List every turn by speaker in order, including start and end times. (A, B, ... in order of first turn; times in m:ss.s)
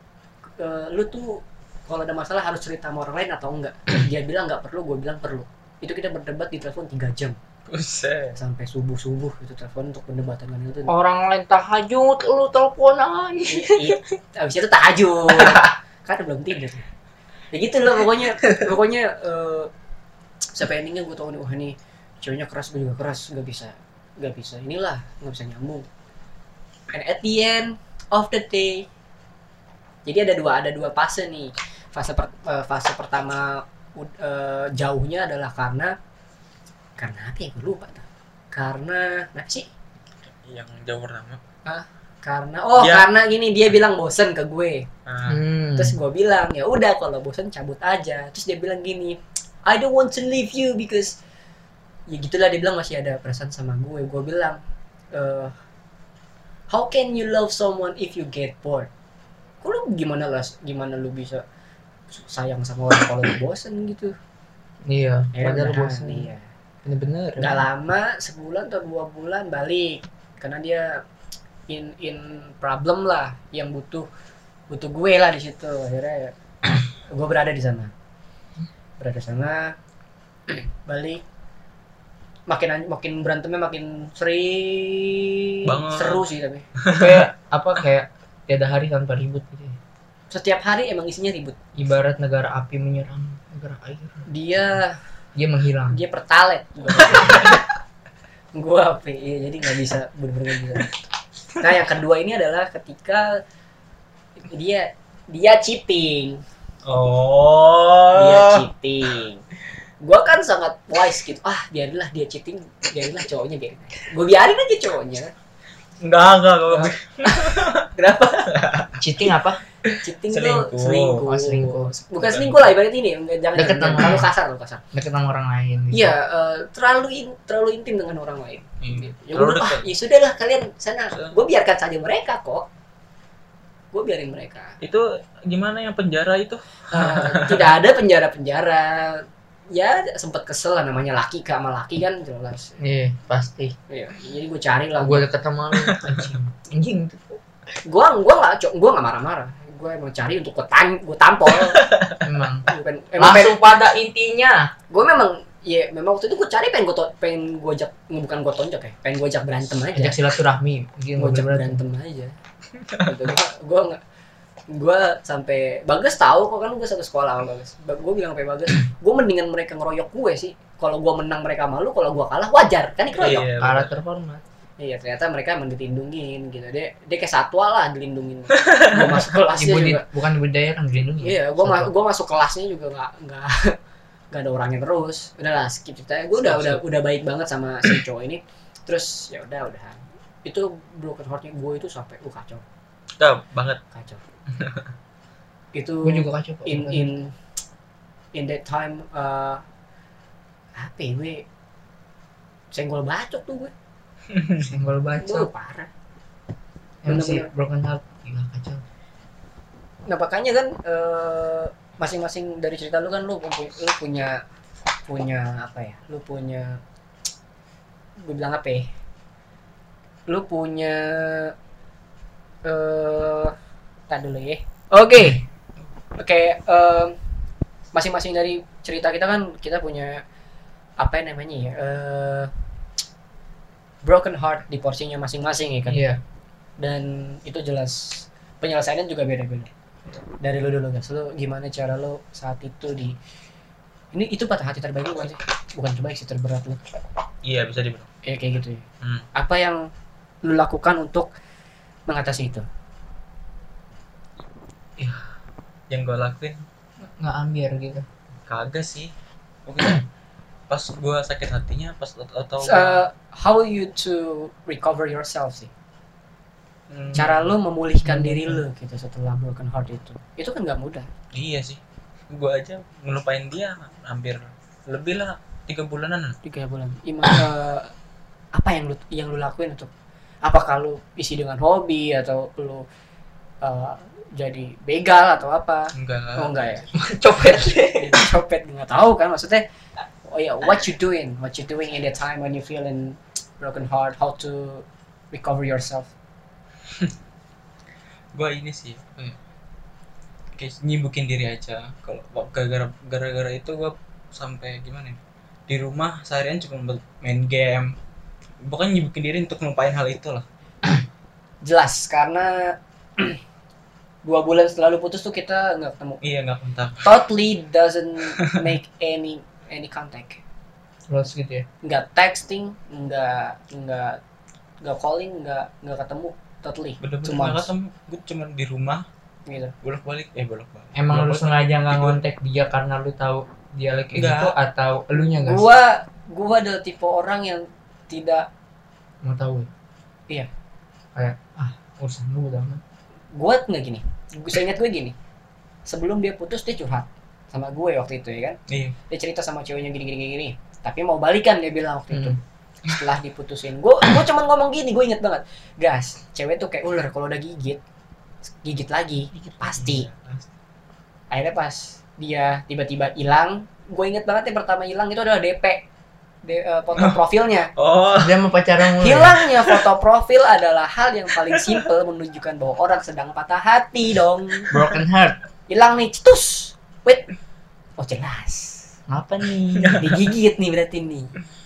0:00.6-0:07.4 A
0:07.7-0:08.4 B
0:08.4-0:10.9 A
0:10.9-0:14.0 C
0:13.5-0:16.8 A
0:15.4-0:15.6 C
0:17.5-0:19.7 A
0:20.5-0:25.8 A
0:26.9-0:28.9 A
0:30.0-0:35.9 A
0:37.0-0:39.7 A
0:40.2-0:41.4 B
0:41.6-0:44.9 A
0:42.8-0:43.1 B
0:45.0-0:45.4 B
0:45.3-0:46.0 C
0:45.8-0:51.2 A
0:52.1-0:54.6 A
0:55.1-0:55.5 A
0:56.7-0:58.9 A
0:59.6-1:01.4 A
1:02.1-1:04.1 A
1:04.9-1:06.3 C
1:05.3-1:06.4 A
1:06.8-1:07.6 C
1:07.4-1:11.0 A
1:11.7-1:14.1 A
1:14.7-1:16.3 A
1:17.0-1:17.9 A
1:19.0-1:19.7 A
1:20.5-1:21.2 A
1:22.5-1:26.6 A
1:25.6-1:26.2 B
1:26.8-1:27.3 B
1:26.9-1:29.8 C
1:30.3-1:31.6 A
1:31.8-1:34.3 C
1:34.3-1:35.0 A
1:35.4-1:36.0 C
1:35.9-1:37.6 A
1:37.0-1:37.6 B
1:38.6-1:40.9 A
1:41.6-1:43.4 A
1:44.5-1:46.4 A
1:46.8-1:48.7 B
1:48.1-1:49.4 A
1:50.0-1:55.3 A
1:56.0-1:57.9 B
1:56.7-1:58.5 A
1:58.5-1:59.0 B
1:59.0-1:59.6 C
1:59.9-2:01.3 B
2:00.0-2:04.8 A
2:01.3-2:01.9 C
2:02.2-2:02.7 B
2:03.6-2:04.3 C
2:04.9-2:06.1 C
2:05.9-2:12.7 A
2:08.8-2:09.9 B
2:13.9-2:14.8 A
2:14.8-2:17.7 B
2:16.9-2:22.7 A
2:22.8-2:23.7 C
2:23.9-2:25.3 A
2:25.0-2:27.4 C
2:25.8-2:26.4 B
2:27.8-2:31.8 A
2:31.8-2:32.2 B
2:32.2-2:34.7 C
2:32.7-2:33.6 A
2:34.9-2:40.2 A
2:39.9-2:41.8 C
2:41.2-2:42.3 A
2:43.0-2:44.0 A
2:44.7-2:53.5 A
2:53.2-2:53.9 B
2:53.3-2:54.4 C
2:54.8-3:00.0 A
2:58.6-2:59.2 B
2:59.5-3:01.9 C
3:01.2-3:03.8 A
3:04.3-3:12.6 A
3:06.4-3:06.8 C
3:13.2-3:13.8 B
3:13.9-3:14.2 A
3:14.5-3:14.9 B
3:15.7-3:17.3 A
3:16.0-3:17.1 C
3:18.3-3:19.6 A
3:20.8-3:21.4 A
3:22.7-3:23.7 A
3:24.3-3:24.7 B
3:24.6-3:25.5 C
3:25.2-3:25.9 A
3:27.0-3:28.8 C
3:27.1-3:27.5 A
3:30.1-3:34.4 A
3:35.1-3:36.8 A
3:38.2-3:38.9 A
3:40.3-3:41.5 A
3:42.6-3:43.5 A
3:44.1-3:45.4 A
3:46.1-3:47.2 A
3:47.9-3:50.2 A
3:51.0-3:52.5 A
3:54.0-3:56.0 A
3:55.9-3:56.2 C
3:56.8-3:59.7 A
4:00.4-4:03.2 A
4:04.1-4:06.8 A
4:07.4-4:08.1 B
4:08.2-4:08.8 A
4:09.3-4:09.8 A
4:10.4-4:11.3 A
4:12.1-4:12.6 A
4:15.0-4:15.2 B
4:15.9-4:16.6 B
4:17.0-4:18.0 C
4:18.5-4:19.1 B
4:19.7-4:20.0 B
4:20.7-4:23.0 B
4:22.6-4:25.7 A
4:26.9-4:27.3 B
4:27.1-4:31.1 A
4:28.0-4:28.6 C
4:31.3-4:36.4 B
4:36.4-4:37.9 A
4:38.5-4:39.9 A
4:40.4-4:42.8 A
4:43.6-4:46.8 A
4:45.9-4:46.8 B
4:46.9-4:48.2 C
4:47.4-4:49.6 A
4:50.2-4:56.1 A
4:58.3-4:59.4 B
5:00.5-5:07.9 B
5:08.6-5:10.4 B
5:11.6-5:13.4 A
5:14.2-5:16.2 A
5:16.2-5:17.1 B
5:17.0-5:20.4 A
5:21.1-5:21.6 C
5:21.8-5:24.2 A
5:24.8-5:27.7 A
5:27.0-5:29.0 B
5:29.5-5:29.7 A
5:29.8-5:32.2 B
5:30.9-5:35.6 C
5:34.1-5:34.6 B
5:35.2-5:38.5 A
5:39.2-5:39.7 C
5:41.1-5:42.8 C
5:43.3-5:45.1 A
5:45.8-5:48.6 A
5:48.7-5:49.0 B
5:49.1-5:57.8 A
5:52.1-5:52.4 C
5:58.6-6:00.1 A
5:59.3-5:59.8 C
5:59.8-6:00.5 B
6:01.3-6:05.8 A
6:06.4-6:07.7 A
6:07.8-6:08.5 B
6:08.2-6:09.4 C
6:09.0-6:14.7 A
6:09.5-6:09.8 B
6:14.7-6:15.4 C
6:15.7-6:17.3 A
6:18.0-6:18.8 A
6:19.1-6:20.0 C
6:19.7-6:20.2 B
6:20.0-6:21.3 A